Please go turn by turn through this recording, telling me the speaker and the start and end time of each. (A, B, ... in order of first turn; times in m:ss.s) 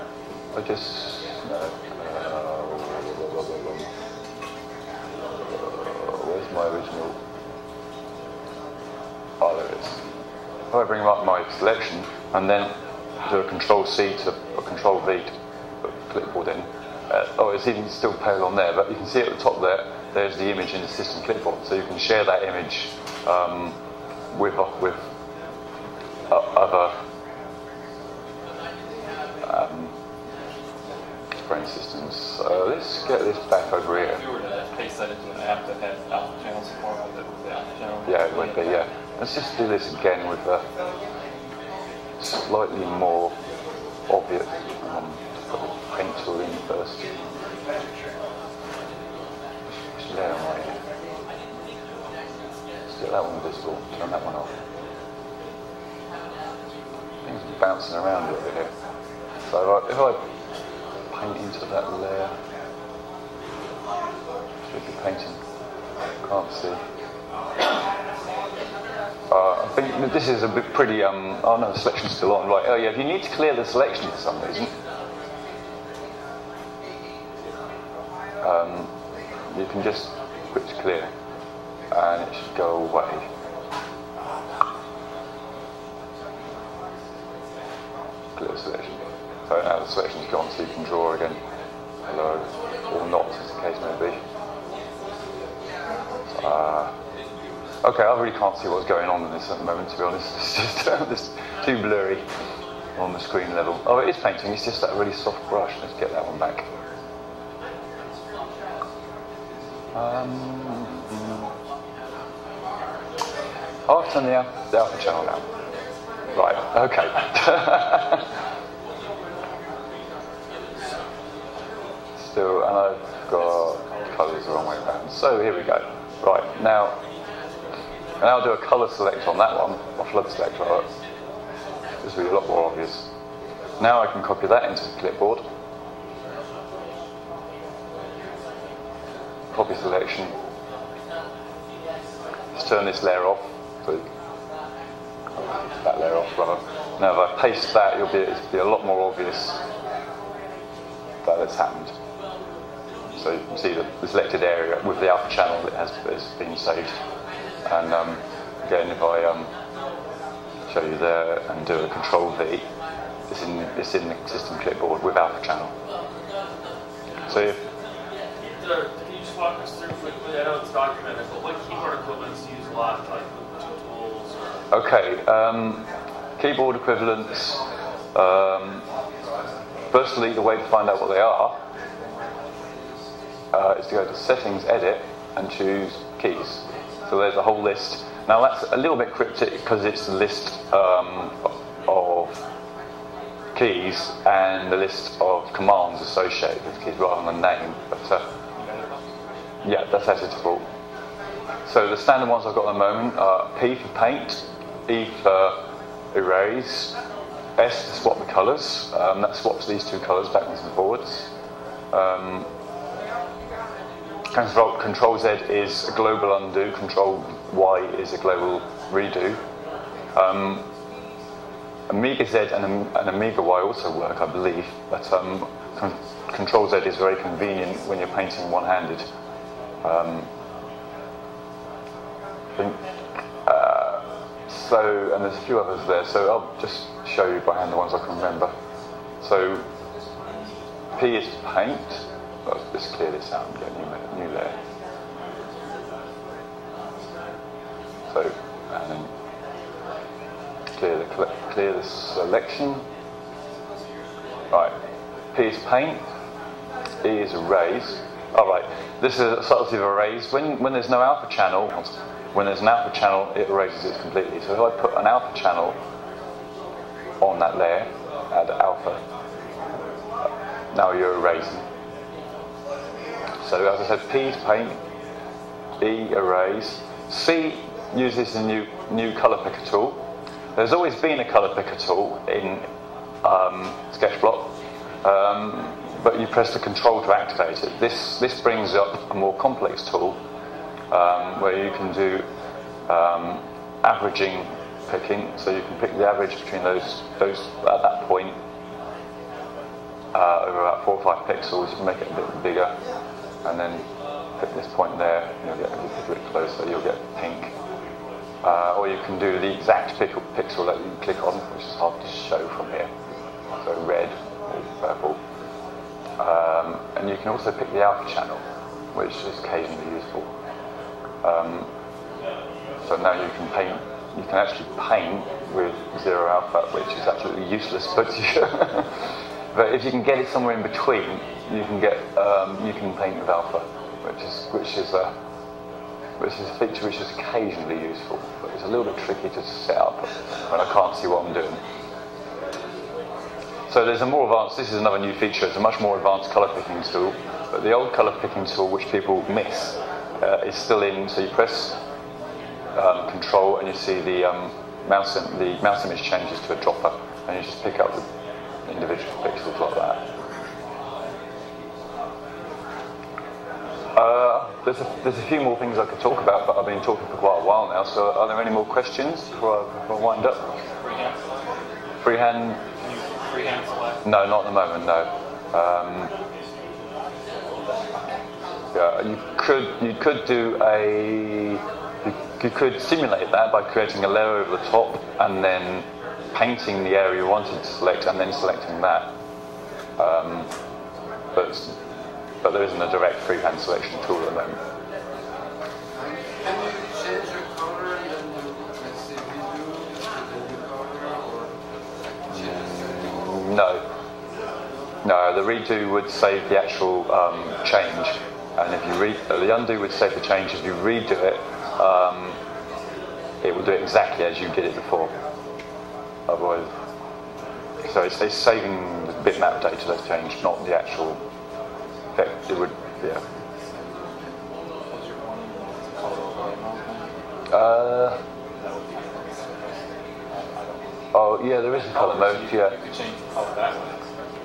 0:00.5-0:03.9 A
0:05.4-0:07.2 A
0:09.4-0:10.0 A
0:10.7-0:23.8 A
0:24.3-0:25.0 A
0:26.3-0:27.0 A
0:29.4-0:29.9 A
0:31.5-0:34.2 A
0:34.1-0:38.8 B
0:38.1-0:40.7 A
0:42.2-0:43.3 A
0:44.1-0:47.1 A
0:49.7-0:50.8 A
0:52.9-0:54.5 A
0:57.2-0:58.7 A
0:59.4-1:00.2 A
1:01.1-1:02.3 A
1:04.7-1:05.4 A
1:06.2-1:06.8 A
1:09.3-1:14.7 A
1:18.4-1:18.9 A
1:19.5-1:21.1 A
1:21.9-1:23.3 A
1:28.4-1:31.4 A
1:32.0-1:34.2 A
1:36.3-1:36.9 A
1:37.8-1:42.2 A
1:43.0-1:46.7 A
1:49.9-1:51.5 A
1:53.9-1:55.4 A
1:56.3-1:58.3 A
2:02.2-2:07.0 A
2:08.2-2:10.9 A
2:12.0-2:13.1 A
2:13.8-2:15.4 A
2:19.5-2:20.3 A
2:22.6-2:24.1 A
2:25.4-2:29.6 A
2:31.2-2:31.9 A
2:33.2-2:36.9 A
2:37.6-2:39.5 A
2:40.7-2:42.7 A
2:43.3-2:45.7 A
2:47.3-2:47.6 A
2:48.6-2:54.4 C
2:54.7-2:55.9 A
2:56.4-2:57.6 A
2:58.1-2:58.8 A
2:59.9-3:01.6 A
3:03.5-3:12.4 A
3:13.6-3:18.2 A
3:18.6-3:19.0 B
3:19.6-3:20.6 A
3:21.7-3:25.6 A
3:26.1-3:27.0 A
3:27.6-3:31.3 A
3:31.9-3:32.5 A
3:34.3-3:39.4 A
3:40.1-3:40.6 A
3:41.9-3:49.1 A
3:49.8-3:50.3 A
3:52.6-3:58.5 A
3:59.2-3:59.7 A
4:01.0-4:04.6 A
4:08.1-4:09.1 A
4:10.8-4:12.8 A
4:15.3-4:16.0 A
4:17.0-4:25.8 A
4:27.2-4:29.0 A
4:30.7-4:31.7 A
4:33.4-4:34.8 A
4:35.8-4:40.0 A
4:40.6-4:42.7 A
4:43.2-4:44.5 A
4:45.0-4:50.2 A
4:50.9-4:52.3 A
4:52.9-4:58.4 A
5:00.1-5:02.8 A
5:03.4-5:03.9 A
5:04.4-5:07.5 A
5:08.4-5:12.9 A
5:13.6-5:15.2 A
5:16.2-5:20.3 A
5:21.2-5:21.7 A
5:22.8-5:35.1 A
5:36.2-5:41.6 A
5:43.7-5:51.8 A
5:52.8-5:58.1 A
5:58.7-6:00.0 A
6:04.0-6:10.5 A
6:10.8-6:11.3 B
6:12.0-6:12.6 A
6:12.8-6:14.0 B
6:14.0-6:16.1 A
6:18.7-6:29.1 A
6:30.0-6:30.5 A
6:31.3-6:31.8 A
6:32.4-6:34.6 A
6:36.0-6:41.5 D
6:42.3-6:43.1 D
6:42.3-6:43.8 A
6:45.0-6:52.4 A
6:53.4-6:55.1 A
6:56.3-6:56.7 A
6:57.8-7:01.2 A
7:02.2-7:03.2 A
7:03.7-7:04.1 D
7:04.9-7:07.1 B
7:07.5-7:08.2 A
7:08.6-7:09.7 B
7:10.3-7:10.8 B
7:11.1-7:12.8 A
7:11.8-7:14.0 B